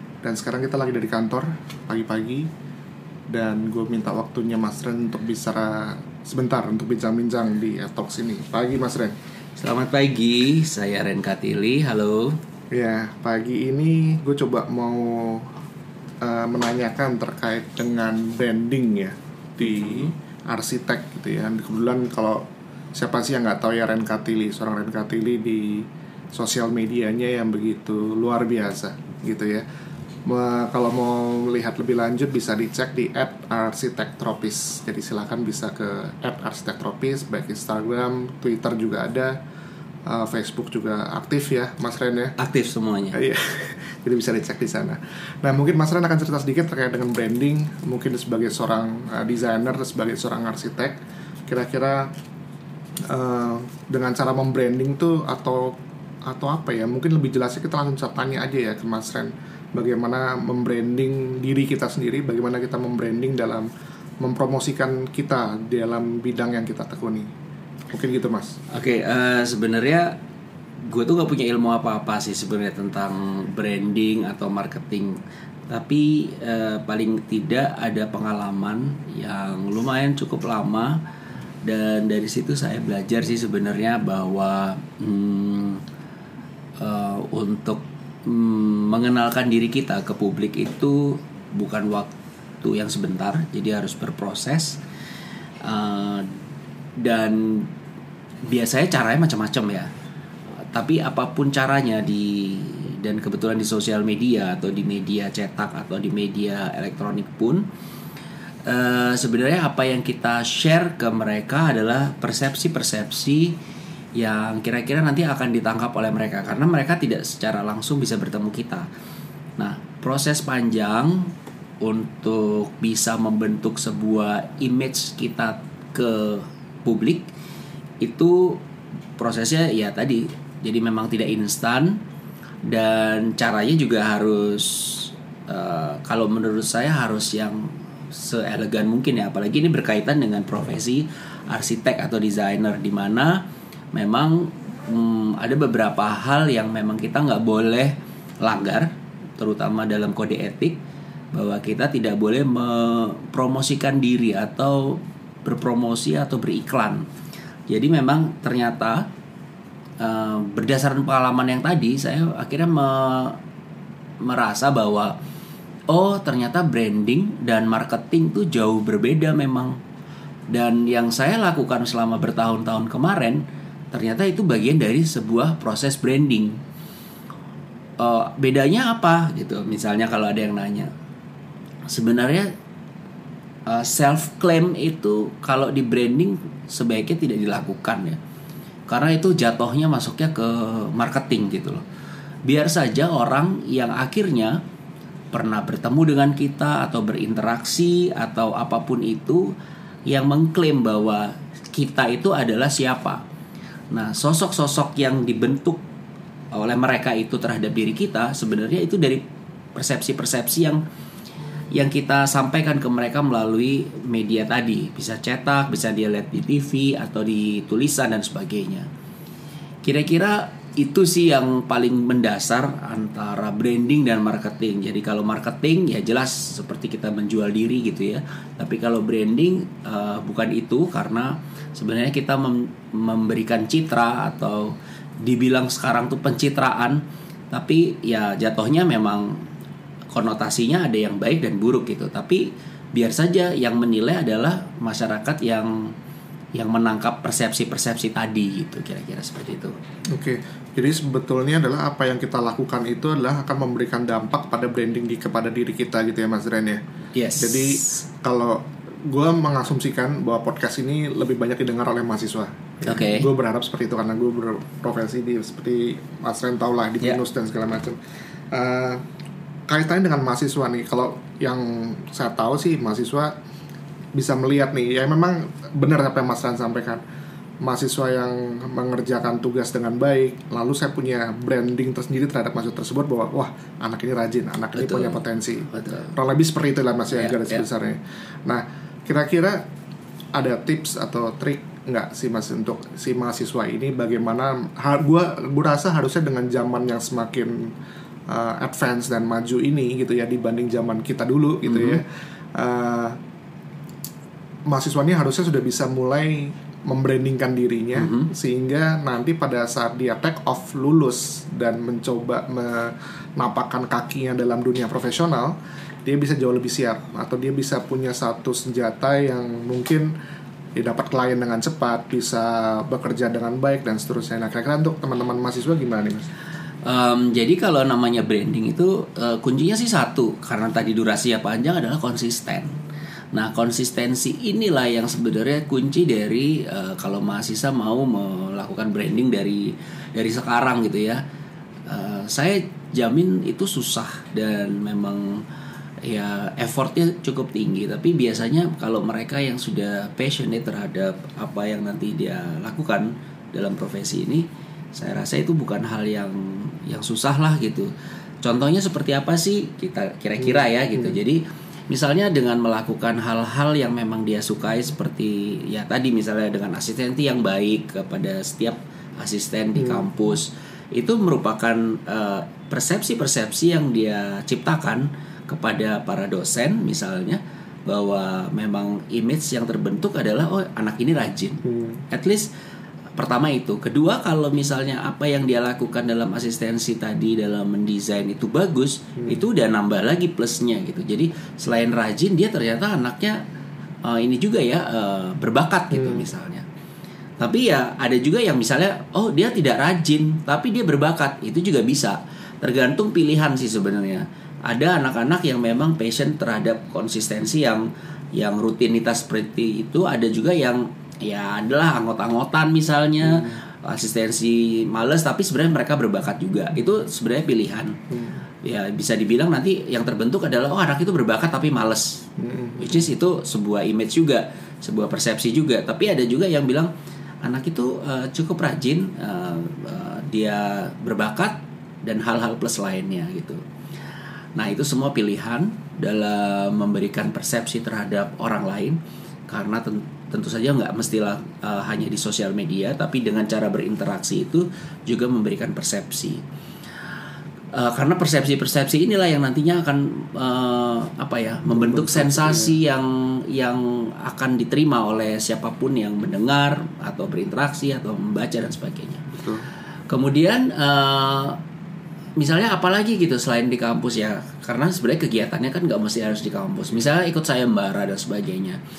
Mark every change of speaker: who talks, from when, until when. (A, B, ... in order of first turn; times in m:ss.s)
0:00.2-0:02.5 A
0:03.3-0:09.1 A
0:09.6-0:12.4 B
0:12.7-0:15.5 A
0:16.2-0:22.4 A
0:19.6-0:20.1 B
0:23.0-0:29.6 A
0:30.3-0:39.3 A
0:40.1-0:42.4 A
0:42.4-0:43.2 B
0:43.1-0:50.9 A
0:51.5-0:52.1 A
0:53.1-1:03.7 A
1:04.2-1:07.3 A
1:07.9-1:08.6 A
1:08.7-1:10.2 B
1:10.9-1:21.0 B
1:21.6-1:25.8 B
1:26.8-1:32.1 B
1:32.6-1:34.8 B
1:35.6-1:36.3 B
1:37.0-1:37.7 B
1:38.5-1:39.9 B
1:40.7-1:47.7 B
1:48.7-1:53.6 B
1:54.2-1:58.9 B
1:59.6-2:07.3 B
2:08.0-2:08.6 B
2:09.2-2:12.0 B
2:12.7-2:23.4 B
2:23.9-2:30.8 B
2:31.3-2:37.1 B
2:37.7-2:39.0 B
2:40.0-2:43.4 B
2:44.2-2:45.2 B
2:45.9-2:49.8 B
2:50.5-2:56.6 B
2:58.0-3:00.9 B
3:01.9-3:02.5 B
3:03.7-3:08.2 B
3:08.9-3:11.8 B
3:12.5-3:14.6 B
3:15.3-3:19.5 B
3:20.1-3:23.2 B
3:23.9-3:25.8 B
3:26.5-3:29.2 B
3:29.8-3:30.8 B
3:31.7-3:38.9 B
3:39.8-3:59.4 B
4:00.1-4:05.9 B
4:06.6-4:09.7 B
4:10.1-4:16.8 A
4:17.1-4:17.8 B
4:17.4-4:28.0 A
4:22.8-4:23.3 B
4:28.5-4:29.0 A
4:29.7-4:33.3 A
4:34.2-4:37.0 A
4:37.6-4:49.6 A
4:44.8-4:46.1 B
4:47.1-4:47.6 B
4:50.4-4:57.7 A
4:58.3-5:02.0 A
5:01.7-5:02.0 B
5:02.6-5:03.2 A
5:04.7-5:15.6 A
5:08.0-5:08.3 B
5:16.1-5:20.1 A
5:20.8-5:26.3 A
5:26.8-5:32.8 B
5:33.3-5:41.2 B
5:41.9-5:45.4 B
5:46.0-5:57.9 B
5:58.4-6:22.5 B
6:00.4-6:01.2 A
6:09.8-6:10.0 A
6:21.7-6:22.0 A
6:23.2-6:33.4 B
6:34.0-6:36.6 B
6:35.9-6:36.3 A
6:37.4-6:58.0 B
6:53.3-6:53.5 A
6:58.1-6:58.4 A
6:58.6-7:02.2 B
7:02.4-7:03.1 A
7:02.8-7:06.9 B
7:07.4-7:13.6 B
7:14.6-7:26.4 B
7:27.7-7:39.3 B
7:31.7-7:32.8 A
7:39.3-7:39.6 A
7:40.1-7:41.6 B
7:42.4-7:48.8 B